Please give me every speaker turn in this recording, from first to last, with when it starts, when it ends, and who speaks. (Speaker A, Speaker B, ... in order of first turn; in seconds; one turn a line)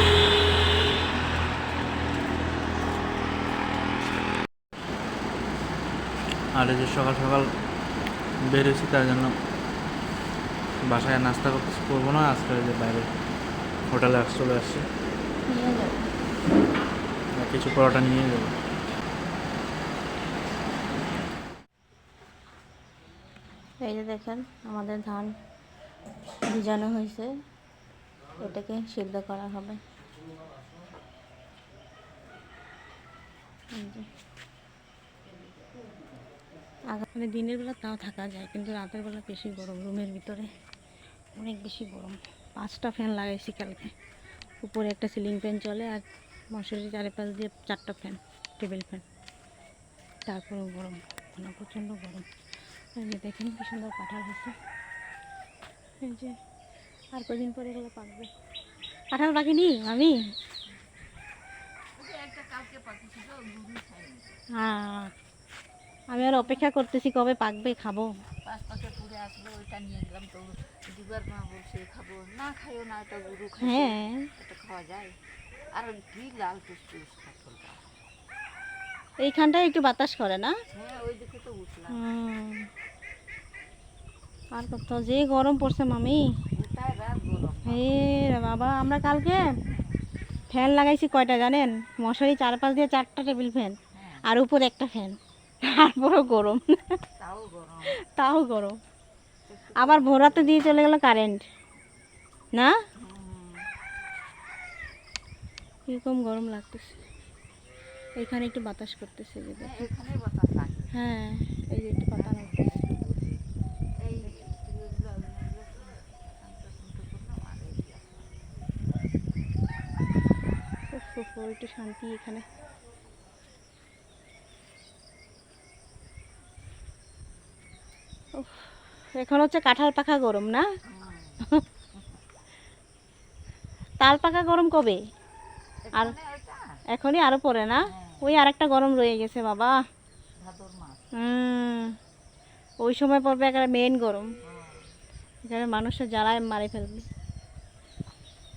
Speaker A: 6.5-7.5
Speaker A: 8.4-9.3
Speaker A: 10.8-13.1
Speaker A: 13.9-14.9
Speaker B: 15.5-16.1
Speaker A: 17.3-18.5
Speaker B: 23.8-25.3
Speaker B: 26.5-27.3
Speaker B: 28.4-29.8
Speaker B: 33.7-34.0
Speaker B: 36.9-40.5
Speaker B: 41.3-43.9
Speaker B: 44.6-46.0
Speaker B: 46.5-49.0
Speaker B: 50.3-52.3
Speaker B: 53.0-54.5
Speaker B: 56.0-56.4
Speaker B: 57.1-58.3
Speaker B: 59.1-60.2
Speaker C: 62.0-64.4
Speaker B: 64.6-65.1
Speaker B: 66.1-68.1
Speaker C: 66.2-66.7
Speaker C: 68.4-75.2
Speaker B: 73.6-74.3
Speaker C: 75.7-77.8
Speaker B: 79.2-80.5
Speaker C: 80.7-82.0
Speaker B: 81.9-82.7
Speaker B: 84.5-86.2
Speaker C: 86.5-87.9
Speaker B: 87.7-89.4
Speaker C: 89.7-90.0
Speaker B: 90.5-97.0
Speaker C: 93.9-94.2
Speaker C: 97.2-97.9
Speaker B: 98.0-98.8
Speaker C: 99.5-100.9
Speaker B: 99.8-101.4
Speaker C: 103.0-103.7
Speaker B: 105.9-107.0
Speaker B: 108.2-109.8
Speaker C: 109.5-111.1
Speaker B: 110.9-112.6
Speaker C: 112.2-113.4
Speaker C: 114.0-118.3
Speaker B: 120.9-122.4
Speaker B: 128.3-128.6
Speaker B: 129.2-130.7
Speaker C: 130.8-132.0
Speaker B: 134.0-135.0
Speaker C: 135.8-136.8
Speaker B: 136.9-139.8
Speaker C: 137.9-138.3
Speaker C: 140.4-141.1
Speaker B: 141.2-141.9
Speaker B: 142.8-144.3
Speaker C: 144.4-144.8
Speaker B: 145.4-147.0